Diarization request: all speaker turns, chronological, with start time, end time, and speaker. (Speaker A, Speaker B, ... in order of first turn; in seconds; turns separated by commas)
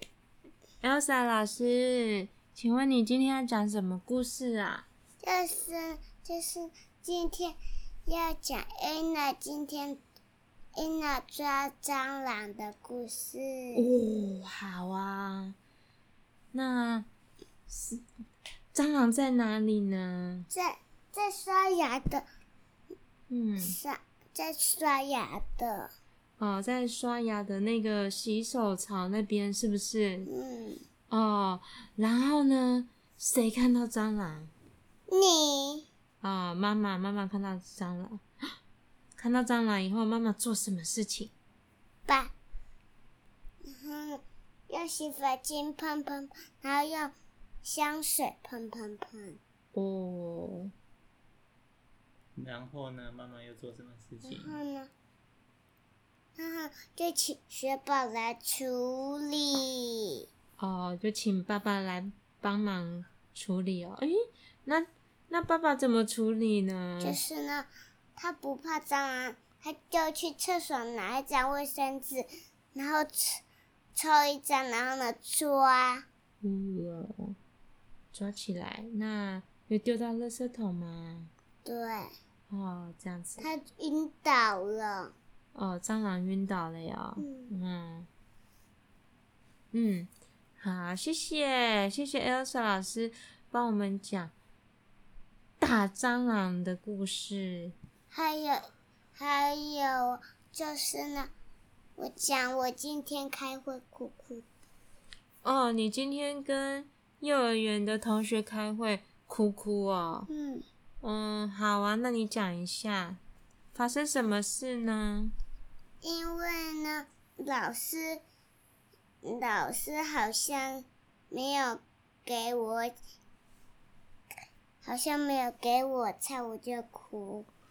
Speaker A: 0.8-4.9, Speaker B: 5.2-10.0, Speaker B: 10.8-13.9, Speaker A: 13.8-15.6, Speaker A: 16.5-17.1, Speaker A: 17.7-18.0, Speaker A: 18.7-20.5, Speaker B: 20.5-22.2, Speaker A: 23.3-23.8, Speaker B: 23.6-25.9, Speaker A: 26.4-30.3, Speaker B: 30.3-30.8, Speaker A: 31.1-34.5, Speaker B: 35.1-35.9, Speaker A: 36.2-38.2, Speaker A: 39.2-41.3, Speaker B: 42.1-42.3, Speaker B: 43.6-47.1, Speaker B: 47.6-49.4, Speaker A: 49.7-50.7, Speaker C: 52.4-54.5, Speaker B: 54.3-54.9, Speaker B: 56.4-60.2, Speaker A: 60.6-67.2, Speaker B: 67.0-73.4, Speaker B: 74.0-76.1, Speaker A: 76.4-77.4, Speaker A: 78.1-81.3, Speaker B: 81.7-82.1, Speaker A: 82.5-83.5, Speaker B: 83.4-85.2, Speaker A: 85.5-88.1, Speaker B: 87.2-87.5, Speaker A: 89.7-94.3, Speaker A: 95.6-97.8, Speaker B: 98.1-101.3, Speaker B: 102.0-104.5, Speaker A: 105.4-110.3, Speaker B: 110.3-110.7, Speaker A: 111.0-113.2, Speaker A: 113.7-115.3, Speaker B: 116.0-118.2, Speaker B: 119.2-122.9, Speaker B: 124.8-127.5